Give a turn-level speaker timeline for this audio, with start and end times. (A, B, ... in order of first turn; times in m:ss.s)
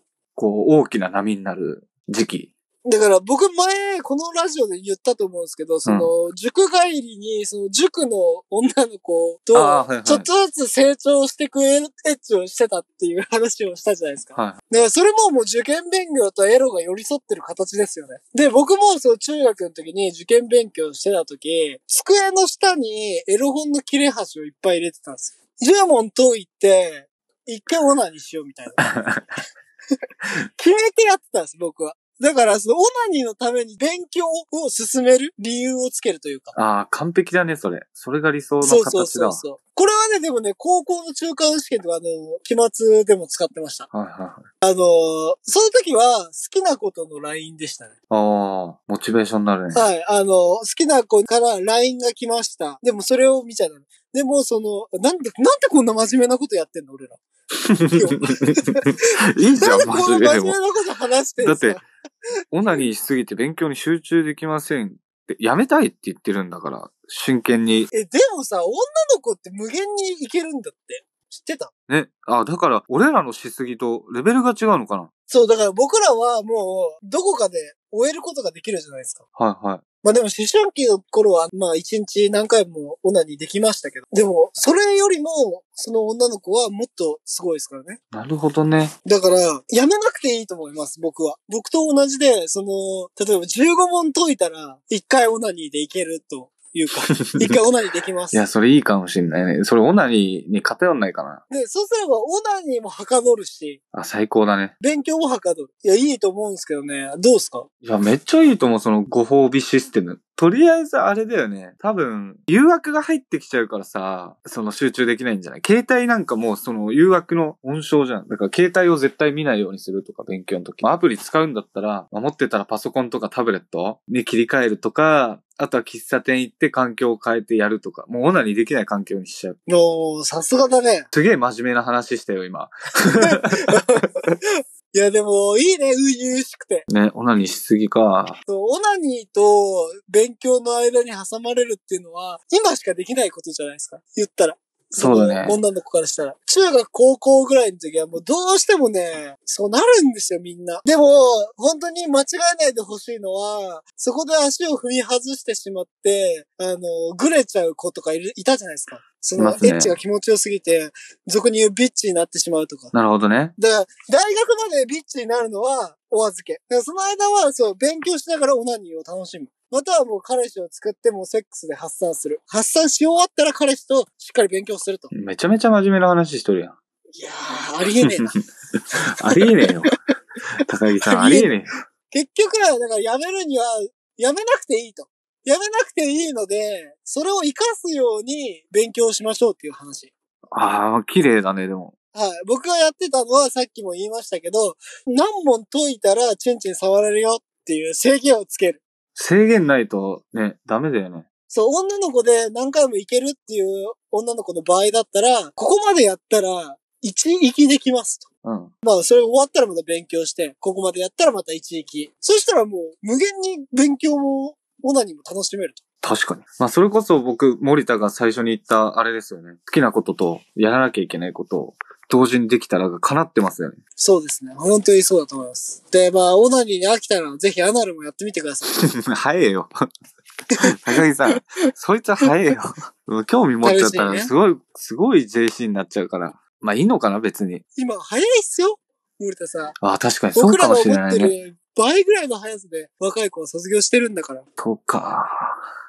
0:00.4-0:02.5 A
0:02.8-0:28.8 B
0:05.8-0:06.1 A
0:09.5-0:10.2 A
0:28.8-0:29.2 A
0:30.6-0:36.5 B
0:36.5-0:39.4 A
0:38.6-0:43.9 B
0:43.9-0:44.4 A
0:44.6-0:47.9 B
0:48.1-0:49.8 A
0:49.7-0:57.2 B
0:57.7-1:00.5 A
0:57.9-0:58.8 B
0:59.6-1:01.8 B
1:01.4-1:01.8 A
1:02.5-1:07.9 A
1:07.9-1:11.7 B
1:11.9-1:15.1 A
1:15.3-1:19.2 B
1:19.4-1:19.8 A
1:20.0-1:28.0 B
1:28.1-1:28.9 A
1:29.0-1:38.5 B
1:37.1-1:37.4 A
1:38.3-1:41.4 A
1:41.5-1:43.8 B
1:43.9-1:44.7 A
1:44.8-1:47.7 B
1:47.8-2:09.6 A
2:09.7-2:11.1 B
2:11.1-2:14.0 A
2:13.2-2:14.1 B
2:14.9-2:16.8 B
2:16.9-2:18.4 A
2:18.4-2:42.9 B
2:25.0-2:25.6 A
2:39.4-2:40.0 A
2:42.9-2:43.5 A
2:43.6-2:55.1 B
2:55.1-2:56.7 A
2:57.1-2:58.3 B
2:58.0-2:58.3 A
2:59.1-2:59.9 A
2:59.3-2:59.7 B
3:00.7-3:01.7 A
3:01.0-3:01.5 B
3:02.1-3:10.1 B
3:10.5-3:11.9 A
3:12.1-3:18.8 B
3:19.2-3:21.2 A
3:21.5-3:28.3 B
3:28.4-3:28.7 A
3:28.8-3:35.8 B
3:36.0-3:43.8 A
3:44.0-3:48.7 B
3:48.7-3:49.7 A
3:50.6-3:51.0 B
3:50.6-3:57.6 A
3:53.6-3:54.3 B
3:57.7-3:59.8 B
3:59.8-4:01.3 A
4:00.3-4:04.4 B
4:04.6-4:05.6 A